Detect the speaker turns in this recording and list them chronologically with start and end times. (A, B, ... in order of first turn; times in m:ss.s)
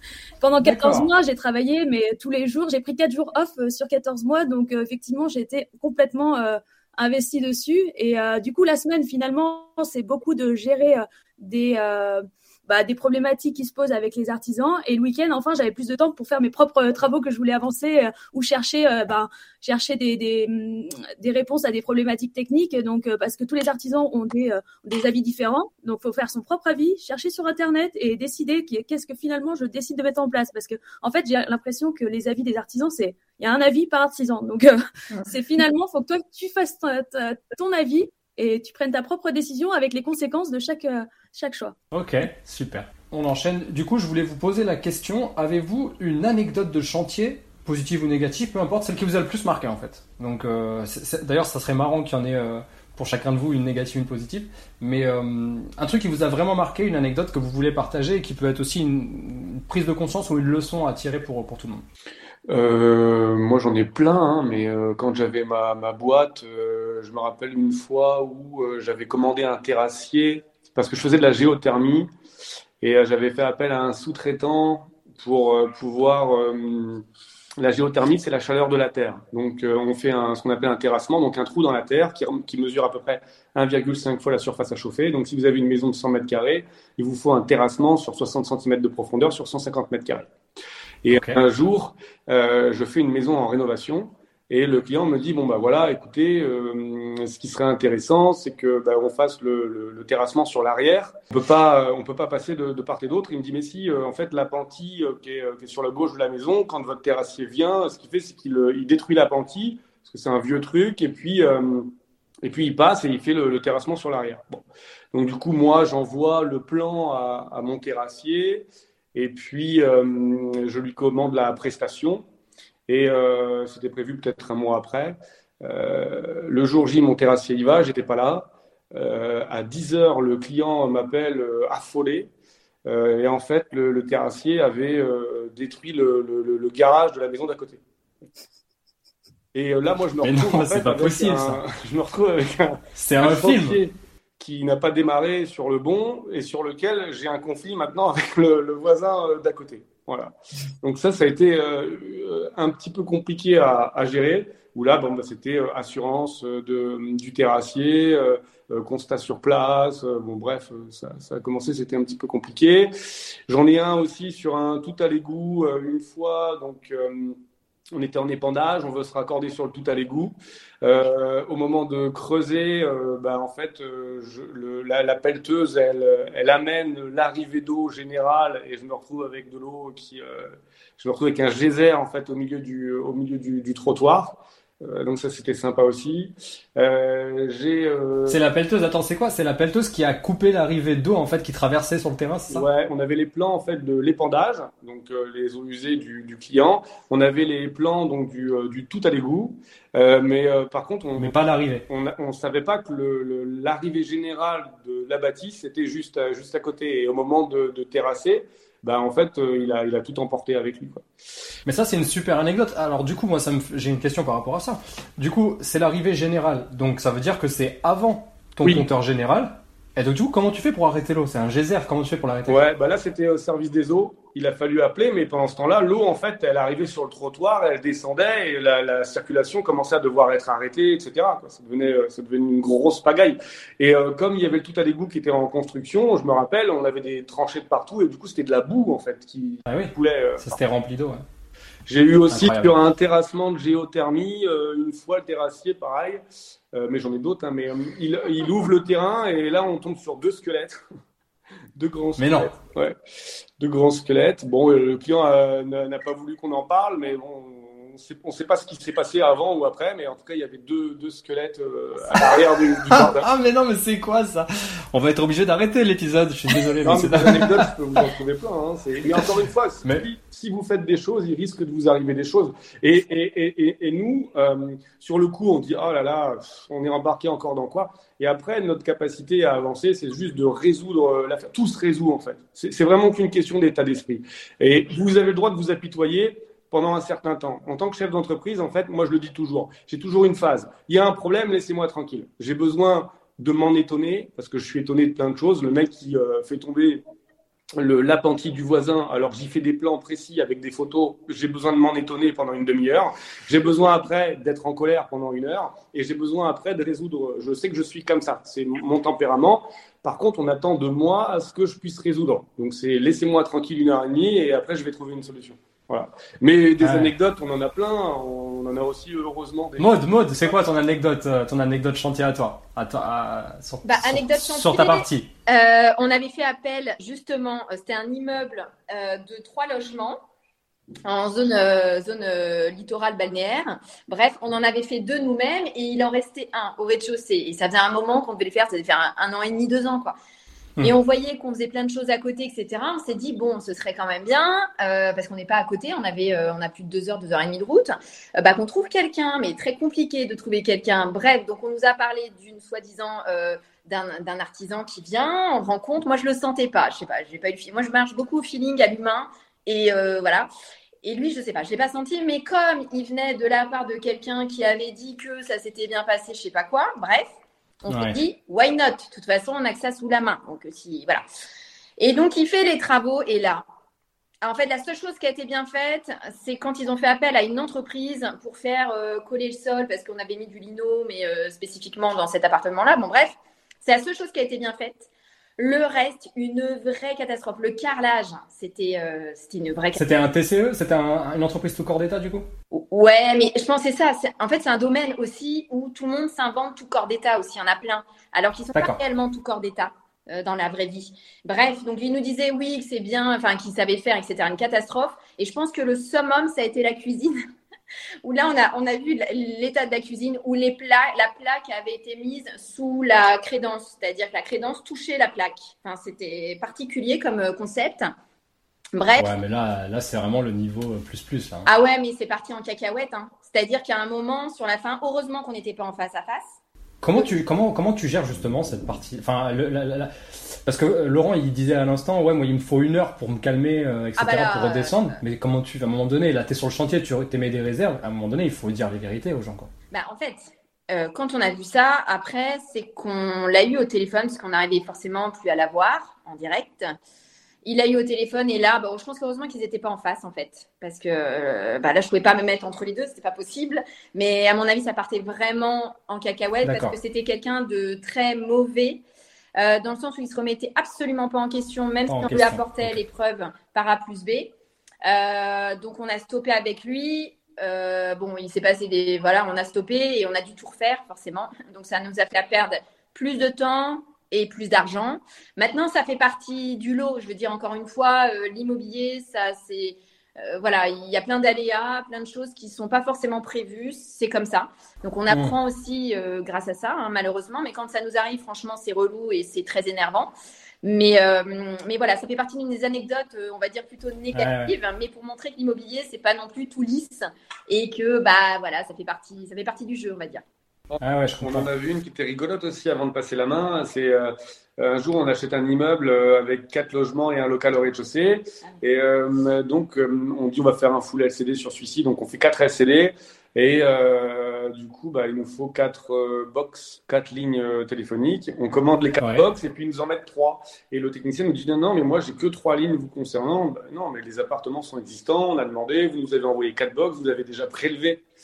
0:00.4-0:41.8 A
0:00.6-0:01.1 B
0:41.9-1:01.8 B
1:02.5-1:12.1 C
1:12.8-1:17.0 C
1:17.6-1:30.3 C
1:31.0-1:51.9 C
1:31.1-1:31.4 B
1:52.4-2:02.2 C
2:02.9-2:12.3 C
2:12.9-2:17.8 C
2:19.5-2:42.9 C
2:20.2-2:21.6 B
2:23.0-2:23.8 B
2:43.5-2:47.4 C
2:47.9-3:08.4 C
3:08.3-3:12.7 B
3:12.5-3:21.4 C
3:21.2-3:21.8 B
3:21.9-3:31.0 C
3:31.6-3:42.6 B
3:42.5-4:00.6 C
3:59.7-4:01.2 B
4:01.9-4:06.2 C
4:02.3-4:02.8 B
4:06.7-4:10.8 C
4:11.8-4:13.0 C
4:12.2-4:12.5 B
4:13.6-4:23.3 C
4:22.2-4:28.0 B
4:26.8-4:57.0 C
4:29.1-4:30.0 B
4:57.8-5:19.9 C
5:16.8-5:17.1 B
5:19.8-5:25.3 B
5:23.8-5:30.2 D
5:31.0-5:40.2 D
5:40.8-6:00.5 D
6:01.0-6:07.3 D
6:07.8-6:11.2 D
6:07.9-6:08.2 B
6:12.0-6:13.6 D
6:14.4-6:30.0 D
6:30.0-6:32.5 B
6:32.7-6:47.3 D
6:48.2-6:58.2 D
6:59.0-6:59.3 D
6:59.2-7:01.7 B
7:01.7-7:06.6 D
7:07.0-7:19.7 B
7:14.2-7:15.2 D
7:19.9-7:27.0 D
7:27.6-7:39.0 D
7:36.6-7:37.0 B
7:39.6-8:10.3 D
7:42.1-7:43.0 B
8:05.3-8:05.6 B
8:10.8-8:20.4 D
8:14.3-8:14.7 B
8:20.9-8:48.2 C
8:21.0-8:21.7 B